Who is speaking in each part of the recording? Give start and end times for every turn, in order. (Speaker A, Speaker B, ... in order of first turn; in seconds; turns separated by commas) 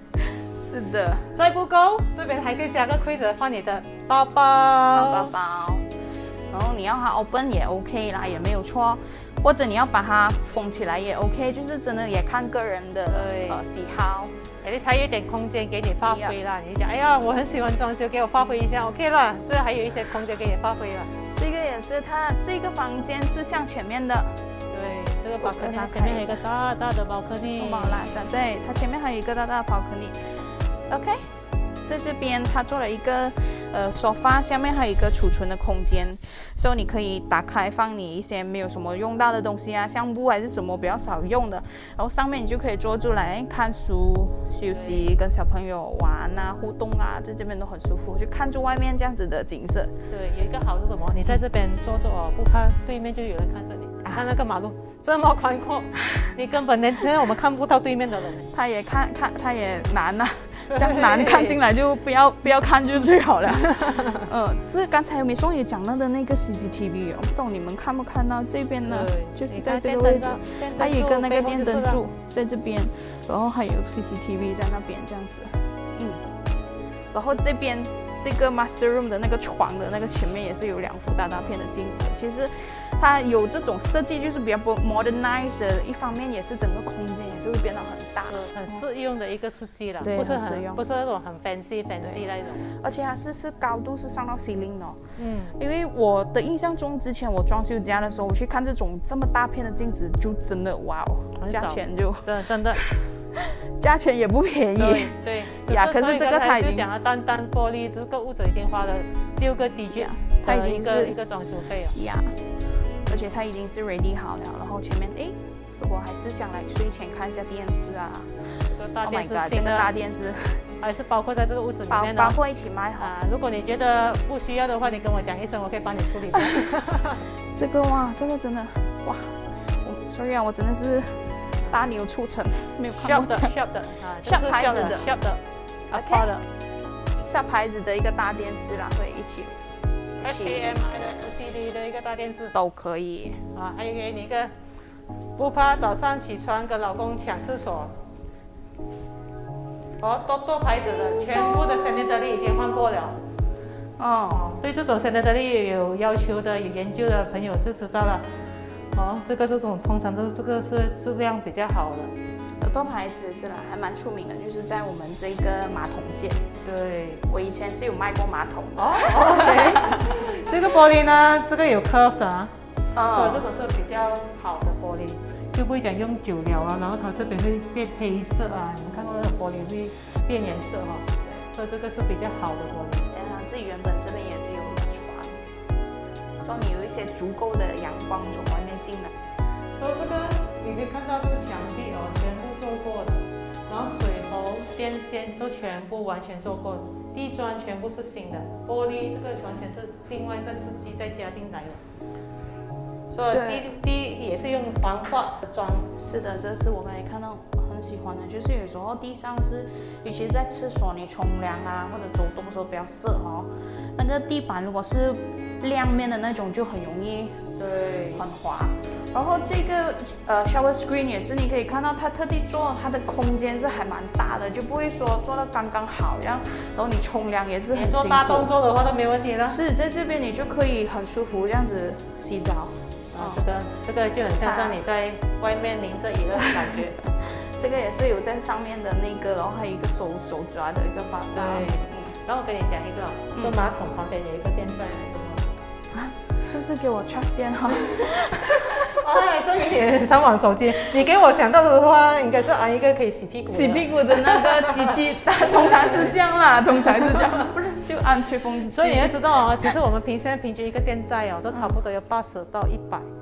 Speaker A: 0.2-1.4, Speaker B: 1.3-5.3, Speaker A: 4.9-14.3, Speaker B: 13.1-13.6, Speaker B: 14.6-21.1, Speaker A: 16.1-16.4, Speaker A: 21.3-24.5, Speaker B: 24.7-28.0, Speaker A: 25.4-26.4, Speaker A: 27.4-49.9, Speaker B: 44.7-45.1, Speaker B: 50.1-58.5, Speaker A: 58.5-76.3, Speaker B: 60.7-61.6, Speaker B: 68.9-72.0, Speaker A: 77.1-88.8, Speaker B: 88.3-92.7, Speaker A: 90.0-90.8, Speaker A: 92.0-95.0, Speaker B: 95.2-95.6, Speaker A: 95.5-106.9, Speaker B: 101.3-102.8, Speaker B: 104.8-112.0, Speaker A: 109.9-111.2, Speaker A: 111.9-120.6, Speaker B: 118.7-119.9, Speaker B: 120.8-122.4, Speaker A: 121.9-123.1, Speaker B: 123.0-127.2, Speaker A: 127.5-133.6, Speaker B: 133.0-136.4, Speaker A: 134.2-135.1, Speaker A: 135.9-136.3, Speaker A: 137.2-141.2, Speaker B: 140.2-142.5, Speaker A: 142.5-143.5, Speaker B: 143.5-144.5, Speaker B: 145.4-148.0, Speaker B: 150.0-153.2, Speaker A: 154.0-154.4, Speaker B: 154.3-158.4, Speaker B: 158.9-162.1, Speaker A: 162.6-166.5, Speaker B: 166.6-167.2, Speaker A: 167.3-170.1, Speaker B: 168.8-172.5, Speaker A: 172.9-173.4, Speaker B: 173.1-183.1, Speaker A: 183.1-185.4, Speaker A: 186.4-189.1, Speaker B: 189.8-201.8, Speaker B: 203.1-205.9, Speaker A: 203.3-203.7, Speaker A: 206.0-217.6, Speaker B: 217.6-218.2, Speaker A: 218.1-228.5, Speaker B: 227.7-229.6, Speaker A: 229.5-233.4, Speaker B: 233.1-237.0, Speaker A: 234.4-234.8, Speaker A: 237.2-242.2, Speaker B: 241.3-245.6, Speaker A: 245.9-249.0, Speaker B: 247.7-248.1, Speaker B: 248.7-256.1, Speaker A: 253.5-259.3, Speaker B: 258.7-263.1